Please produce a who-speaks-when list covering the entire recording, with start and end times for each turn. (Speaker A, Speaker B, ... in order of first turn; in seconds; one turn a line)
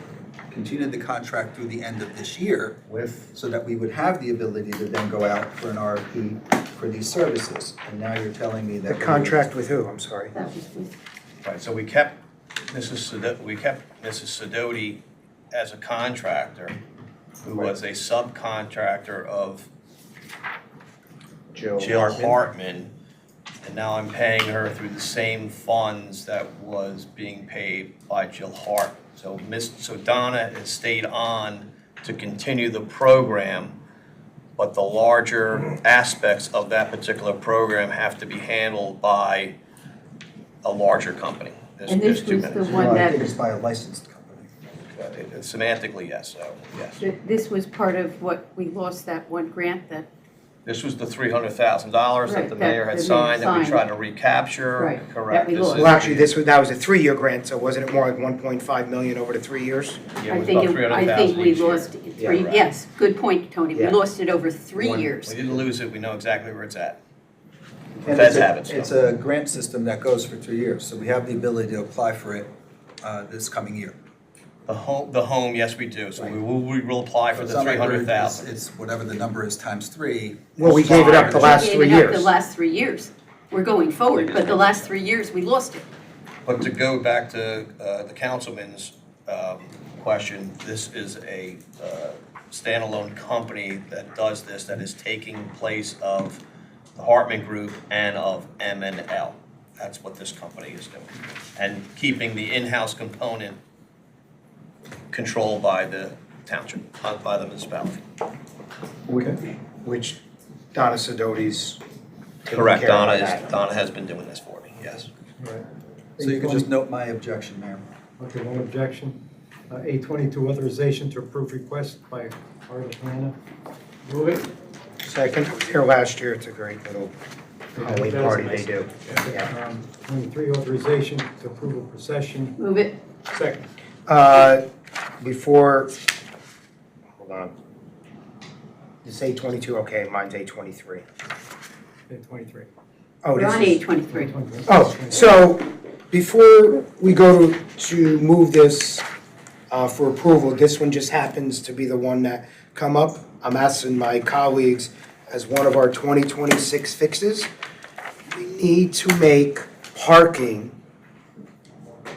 Speaker A: 0.5-9.5
Speaker B: 2.9-3.3
Speaker C: 8.9-10.3
Speaker D: 10.3-10.9
Speaker B: 11.4-16.8
Speaker B: 17.4-19.7
Speaker C: 21.5-22.4
Speaker B: 21.8-22.9
Speaker B: 23.6-33.8
Speaker B: 34.6-39.5
Speaker B: 40.6-42.8
Speaker D: 41.9-43.3
Speaker A: 42.6-44.5
Speaker B: 44.9-47.0
Speaker D: 47.0-50.1
Speaker B: 50.6-56.3
Speaker D: 52.2-53.8
Speaker D: 54.8-55.9
Speaker C: 55.7-60.0
Speaker B: 60.2-62.7
Speaker D: 60.3-65.5
Speaker B: 64.8-67.0
Speaker B: 68.0-68.9
Speaker A: 68.0-74.0
Speaker B: 74.7-78.5
Speaker A: 77.3-81.6
Speaker C: 80.6-82.3
Speaker D: 81.2-85.9
Speaker B: 84.2-84.8
Speaker B: 86.5-96.4
Speaker B: 97.0-103.6
Speaker B: 105.1-108.0
Speaker C: 109.1-110.2
Speaker C: 110.7-111.8
Speaker C: 112.5-113.5
Speaker B: 112.5-115.1
Speaker E: 115.4-115.7
Speaker E: 116.2-116.7
Speaker A: 116.2-117.8
Speaker E: 118.2-123.4
Speaker E: 124.1-124.5
Speaker C: 125.0-127.1
Speaker C: 127.8-129.5
Speaker E: 127.8-132.6
Speaker D: 132.6-133.0
Speaker E: 133.3-133.7
Speaker C: 134.1-134.6
Speaker C: 135.2-135.9
Speaker C: 137.2-137.5
Speaker C: 139.0-141.0
Speaker E: 142.1-142.7
Speaker C: 143.2-143.8
Speaker D: 143.3-144.3
Speaker E: 144.1-145.3
Speaker C: 144.7-149.1
Speaker C: 149.7-157.5
Speaker C: 158.3-160.7